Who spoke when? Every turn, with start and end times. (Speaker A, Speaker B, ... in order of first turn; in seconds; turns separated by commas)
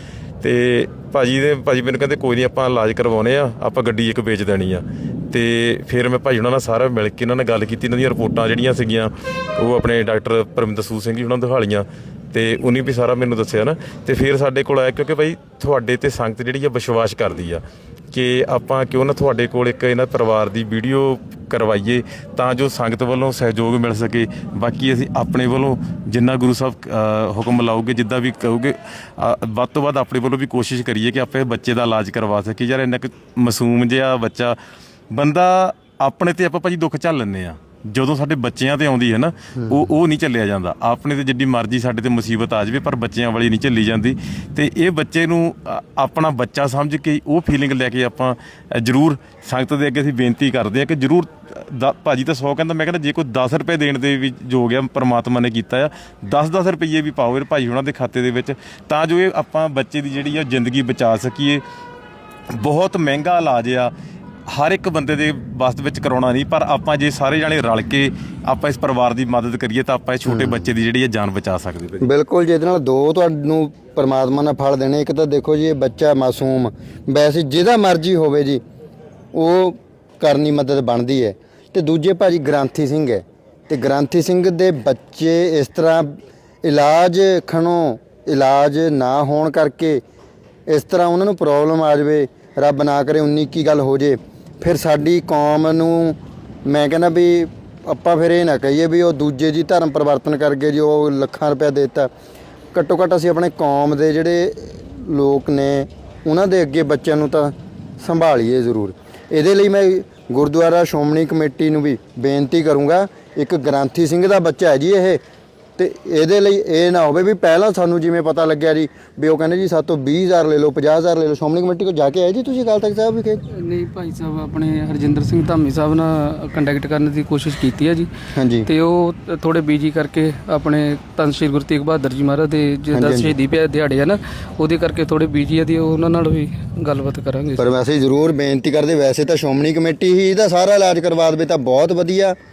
Speaker A: 0.4-34.6, Speaker A: 35.1-61.6, Speaker B: 39.6-39.9, Speaker A: 62.5-63.9, Speaker A: 64.5-72.0, Speaker B: 70.2-70.7, Speaker B: 72.0-78.6, Speaker B: 79.3-90.0, Speaker B: 90.7-102.1, Speaker B: 102.7-115.2, Speaker B: 115.8-123.4, Speaker C: 123.5-128.1, Speaker B: 128.3-128.7, Speaker C: 128.6-137.7, Speaker B: 132.9-133.3, Speaker B: 137.6-142.3